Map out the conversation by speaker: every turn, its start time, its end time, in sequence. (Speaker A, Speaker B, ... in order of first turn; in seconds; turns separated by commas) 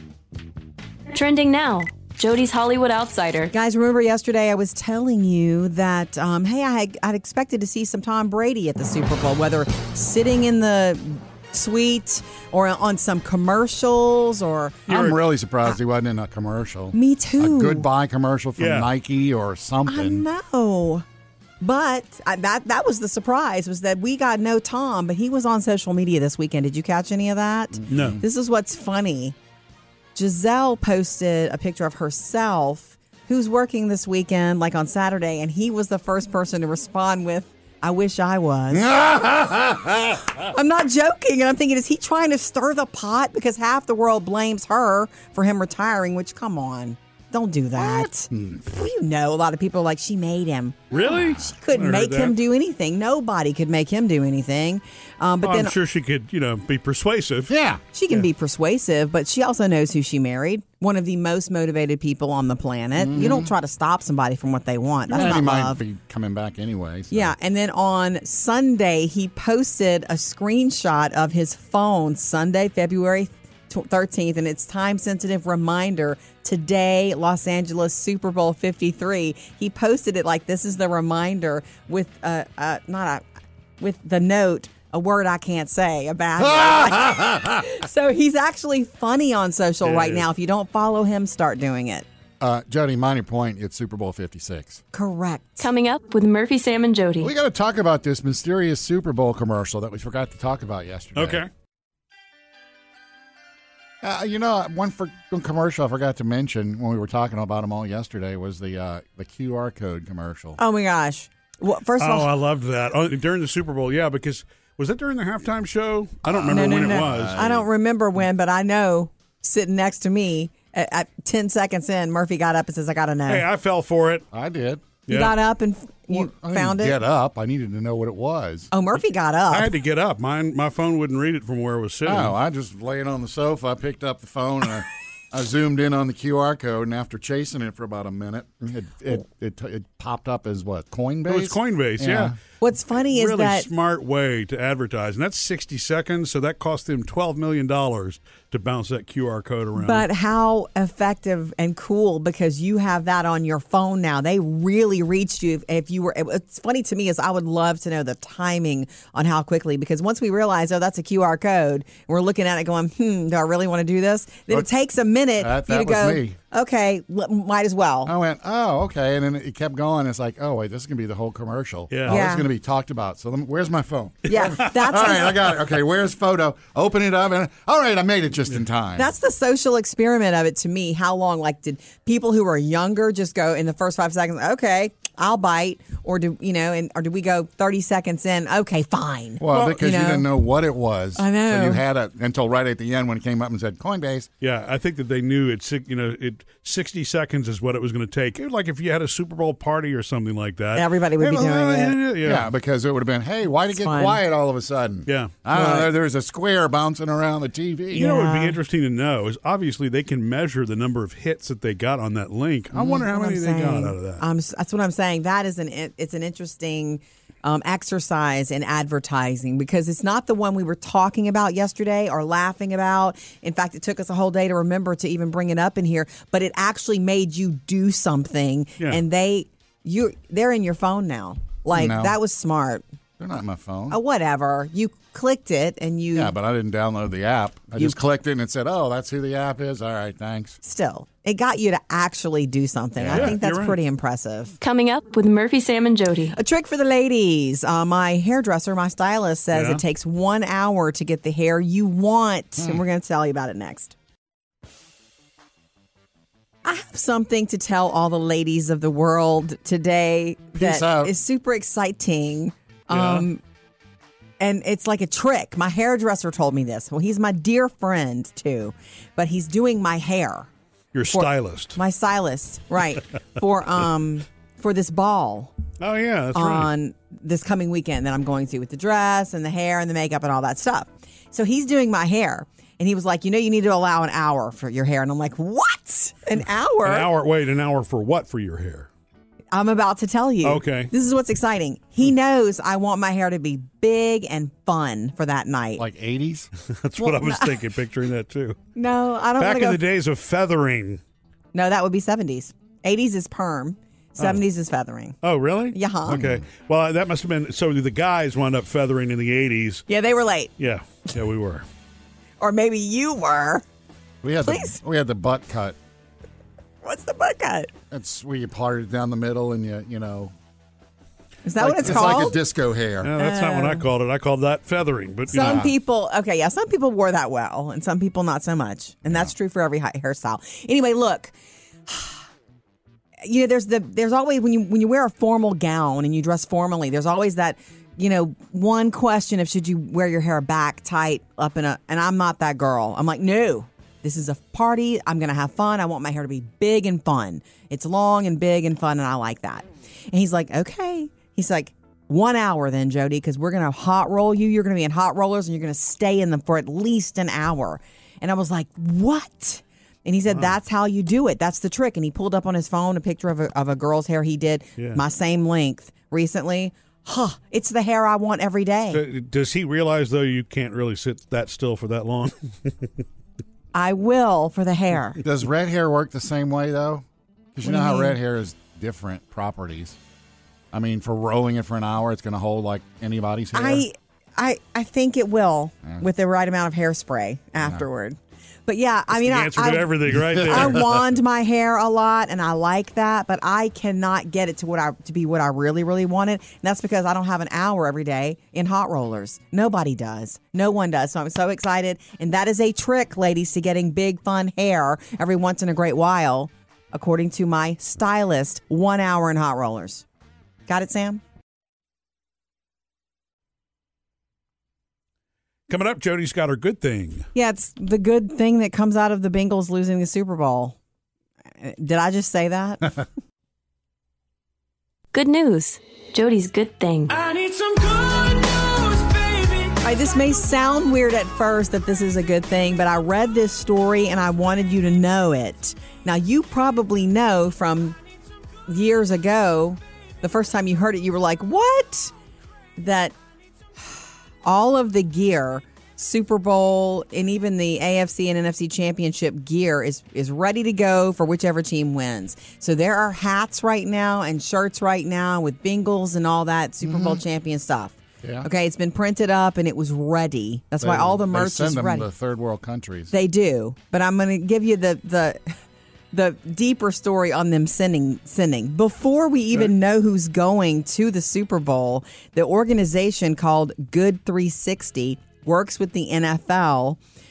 Speaker A: 1.1-3.5, Speaker B: 3.5-14.9, Speaker C: 14.9-15.2, Speaker D: 14.9-20.2, Speaker B: 16.9-17.9, Speaker C: 18.6-18.9, Speaker B: 19.9-21.1, Speaker B: 21.6-29.4, Speaker D: 27.8-28.2, Speaker C: 27.9-28.2, Speaker B: 30.1-38.9, Speaker D: 38.7-40.5, Speaker B: 40.4-55.7, Speaker D: 47.8-48.7, Speaker C: 50.9-52.4, Speaker C: 55.4-57.5, Speaker D: 57.5-57.8, Speaker B: 57.9-65.8, Speaker D: 63.0-63.5, Speaker D: 65.1-67.3, Speaker B: 67.1-83.2, Speaker B: 83.8-92.1, Speaker D: 86.4-87.7, Speaker C: 89.8-90.3, Speaker D: 92.4-94.8, Speaker B: 94.9-95.7, Speaker A: 95.6-97.3, Speaker D: 97.2-101.4, Speaker C: 101.2-101.5, Speaker D: 104.0-110.6, Speaker B: 110.6-112.3, Speaker C: 112.0-117.4, Speaker D: 116.3-117.7, Speaker B: 116.5-123.5, Speaker C: 123.3-124.2, Speaker D: 124.3-124.9, Speaker C: 125.1-125.4, Speaker B: 125.1-127.0, Speaker D: 126.1-128.7, Speaker B: 128.7-129.7, Speaker C: 129.5-132.3, Speaker D: 132.1-142.4, Speaker C: 141.3-142.4, Speaker B: 142.6-143.7, Speaker C: 143.1-150.1, Speaker B: 149.8-168.1, Speaker D: 165.4-166.4, Speaker D: 168.1-179.1, Speaker C: 171.9-172.2, Speaker B: 172.1-172.5, Speaker B: 174.3-175.6, Speaker C: 174.4-174.7, Speaker B: 179.0-190.3, Speaker D: 189.4-194.3, Speaker B: 191.2-191.8, Speaker C: 194.4-202.5, Speaker B: 200.7-202.0, Speaker D: 201.2-201.6, Speaker D: 202.2-208.1, Speaker B: 203.8-204.2, Speaker C: 205.1-205.3, Speaker B: 205.5-205.9, Speaker B: 207.9-208.6, Speaker C: 207.9-214.2, Speaker B: 212.7-232.8, Speaker D: 212.8-213.0, Speaker D: 231.7-232.2, Speaker D: 233.2-234.0, Speaker B: 233.9-236.3, Speaker D: 236.1-240.6, Speaker B: 240.6-244.6, Speaker D: 243.0-243.4, Speaker C: 243.1-243.8, Speaker A: 244.6-246.4, Speaker B: 246.3-253.9, Speaker C: 249.5-249.8, Speaker B: 256.6-263.4, Speaker D: 260.6-261.1, Speaker C: 262.9-263.3, Speaker B: 264.4-270.5, Speaker C: 270.9-271.8, Speaker B: 271.1-275.5, Speaker C: 275.8-276.7, Speaker B: 276.3-287.1, Speaker C: 286.9-288.9, Speaker B: 289.5-295.8, Speaker C: 290.4-290.9, Speaker D: 295.8-296.5, Speaker C: 296.6-298.6, Speaker B: 297.0-297.6, Speaker B: 298.8-299.8, Speaker C: 299.4-301.0, Speaker B: 301.5-305.2, Speaker C: 305.2-309.9, Speaker B: 305.7-306.2, Speaker D: 306.1-306.4, Speaker B: 309.9-310.5, Speaker C: 310.6-311.6, Speaker B: 312.4-313.6, Speaker D: 314.2-315.8, Speaker B: 314.5-314.8, Speaker B: 316.8-317.7, Speaker D: 317.9-320.3, Speaker B: 321.4-322.4, Speaker D: 321.6-323.1, Speaker C: 323.0-325.7, Speaker B: 323.2-323.9, Speaker B: 325.3-331.3, Speaker D: 325.3-325.7, Speaker D: 329.1-329.3, Speaker B: 331.9-332.2, Speaker B: 333.2-369.0, Speaker C: 368.9-372.9, Speaker B: 373.7-375.2, Speaker D: 375.2-380.0, Speaker B: 377.6-378.2, Speaker D: 380.7-383.9, Speaker B: 383.5-410.1, Speaker C: 389.1-391.0, Speaker D: 390.3-390.8, Speaker B: 410.7-411.2, Speaker C: 415.7-417.3, Speaker B: 417.4-420.8, Speaker B: 421.6-422.9, Speaker A: 425.1-427.1, Speaker E: 427.1-429.8, Speaker B: 429.8-438.0, Speaker B: 438.7-442.1, Speaker B: 442.8-443.1, Speaker B: 443.8-462.1, Speaker D: 456.8-457.2, Speaker D: 458.2-458.5, Speaker D: 460.8-463.1, Speaker B: 463.1-465.5, Speaker B: 466.1-477.0